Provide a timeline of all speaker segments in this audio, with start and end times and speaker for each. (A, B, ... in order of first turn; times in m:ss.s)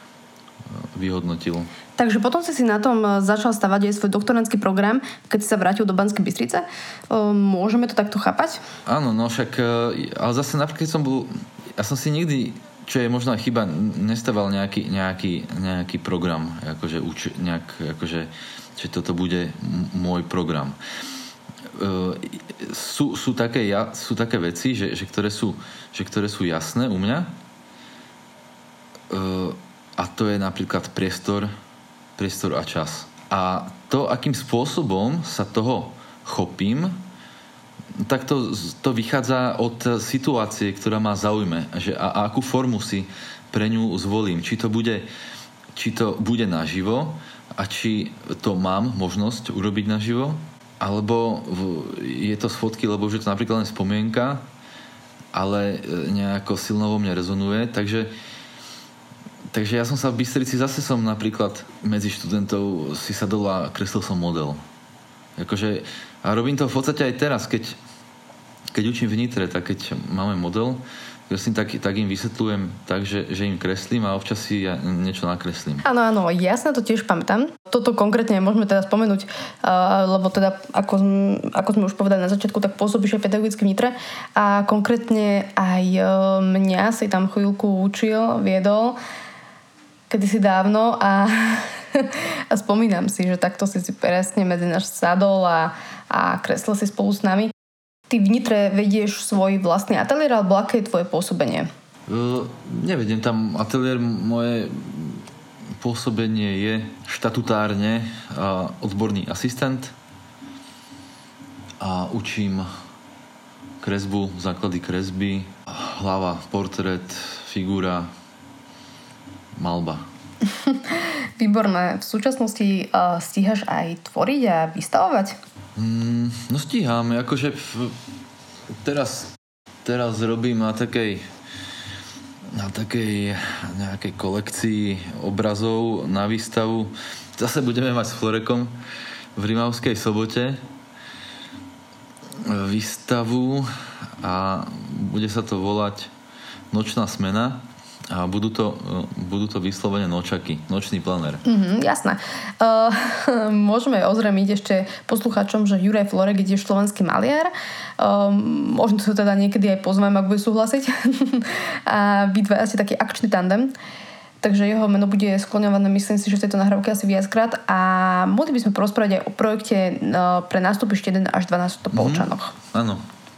0:00.7-0:01.7 A
0:02.0-0:08.6 B
0:08.8-0:20.8 A
0:21.7-0:27.3 A
0:29.1-0:31.5 A
0:32.2-0:37.0 A
0:38.0-0:45.1 A
0:45.7-0:54.4 A
0:55.3-0:58.1 A
0:59.5-1:04.6 A
1:05.4-1:07.8 A
1:08.7-1:15.8 A
1:15.8-1:29.0 B
1:30.1-1:37.5 B
1:38.1-1:41.7 B
1:42.1-1:45.3 A
1:45.8-1:49.9 A
1:51.8-1:52.7 A
1:53.8-1:58.1 A
1:59.6-2:00.1 A
2:00.4-2:05.4 B
2:05.8-2:08.0 A
2:08.8-2:11.2 A
2:12.5-2:18.8 A
2:19.4-2:20.6 A
2:22.4-2:26.1 A
2:26.7-2:31.4 A
2:31.4-2:43.7 B
2:44.4-2:52.5 B
2:51.9-2:53.0 A